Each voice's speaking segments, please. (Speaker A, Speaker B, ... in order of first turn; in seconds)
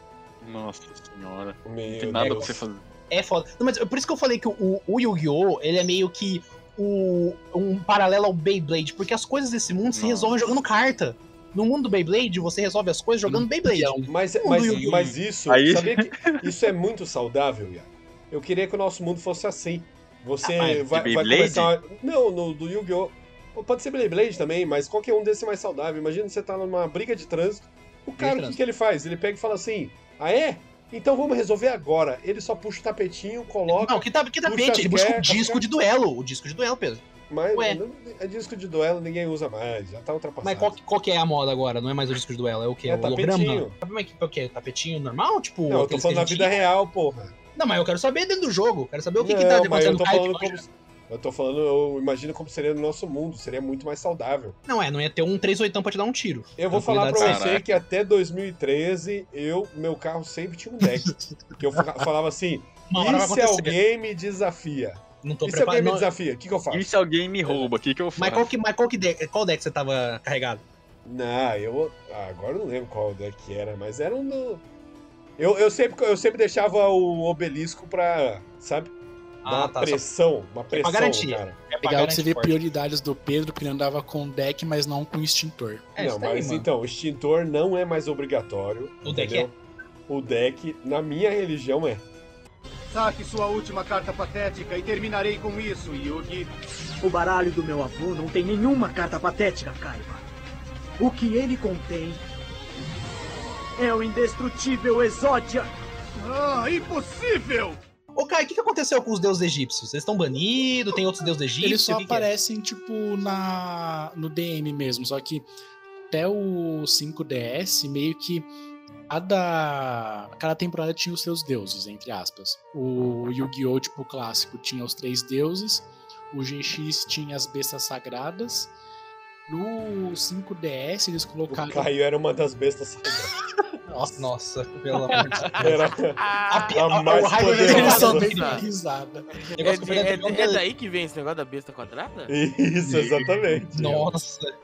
Speaker A: 0.4-2.8, 9.9-10.4, 14.8-16.5, 20.9-21.7, 57.1-57.6, 66.7-68.5
Speaker B: 1.6-2.6, 14.1-35.6, 37.3-40.8, 42.9-43.8, 45.7-47.3, 49.2-54.6, 56.6-66.9, 71.0-74.6, 75.4-78.9, 79.4-81.6, 86.0-89.5, 90.1-92.0, 131.5-133.3, 135.6-138.3, 142.3-144.1
Speaker C: 2.2-2.5, 3.1-15.1, 20.4-20.8, 28.2-28.6, 33.7-37.8, 40.4-46.6, 47.5-50.6, 54.7-57.4, 62.9-63.7, 65.2-66.0, 67.5-70.6, 79.4-80.0, 80.7-82.6, 86.0-86.7, 89.0-89.5, 108.1-112.3, 134.2-135.7, 136.5-138.7, 139.6-140.6, 143.7-144.5
Speaker D: 13.2-14.1, 61.0-61.8, 81.8-85.9, 111.6-115.5, 116.1-118.5, 119.1-128.7, 129.5-131.9, 133.9-134.3, 134.9-135.7, 137.5-139.5
Speaker E: 92.9-96.5, 106.2-107.8
Speaker F: 97.0-100.2, 101.0-102.2, 103.8-105.7
Speaker G: 136.2-136.8, 137.4-138.7, 139.4-142.3